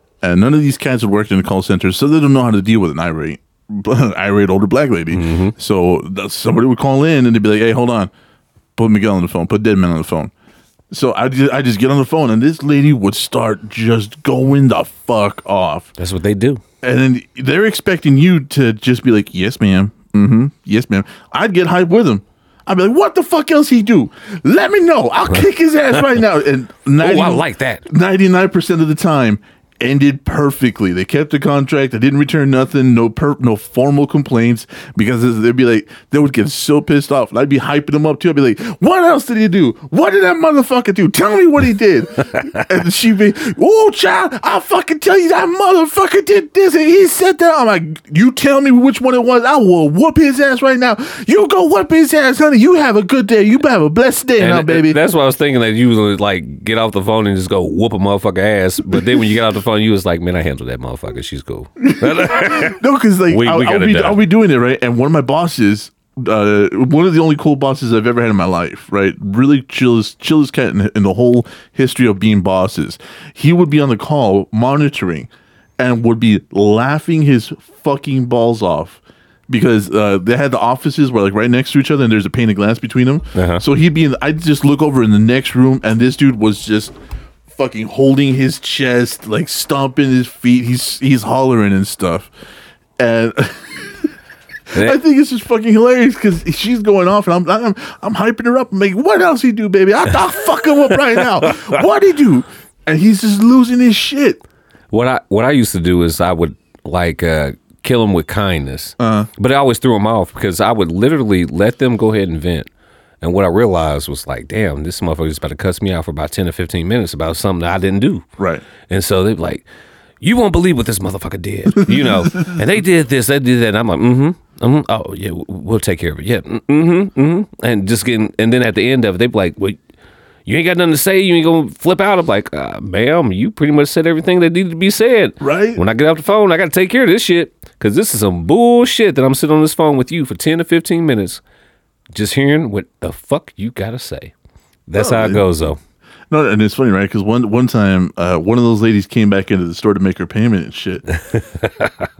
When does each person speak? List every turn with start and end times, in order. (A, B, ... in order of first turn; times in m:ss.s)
0:00.2-0:08.1 A
0:05.1-0:05.5 B
0:08.8-0:10.3 A
0:10.9-0:15.9 A
0:16.0-0:16.6 B
0:16.8-0:55.0 A
0:27.0-0:27.8 B
0:54.4-1:04.2 B
1:01.8-1:26.9 A
1:23.3-1:23.6 B
1:27.5-1:32.3 A
1:33.0-1:34.1 A
1:34.7-1:44.4 A
1:34.7-1:35.0 B
1:44.9-1:52.7 B
1:49.0-1:49.3 A
1:53.2-1:58.2 B
1:58.4-1:58.6 A
1:58.9-1:59.6 B
2:00.2-2:09.8 B
2:01.9-2:02.6 A
2:10.4-2:21.4 B
2:15.4-2:15.8 A
2:22.1-2:24.3 B
2:24.9-2:25.8 B
2:25.0-2:25.4 A
2:26.3-2:31.0 A
2:31.6-2:31.9 B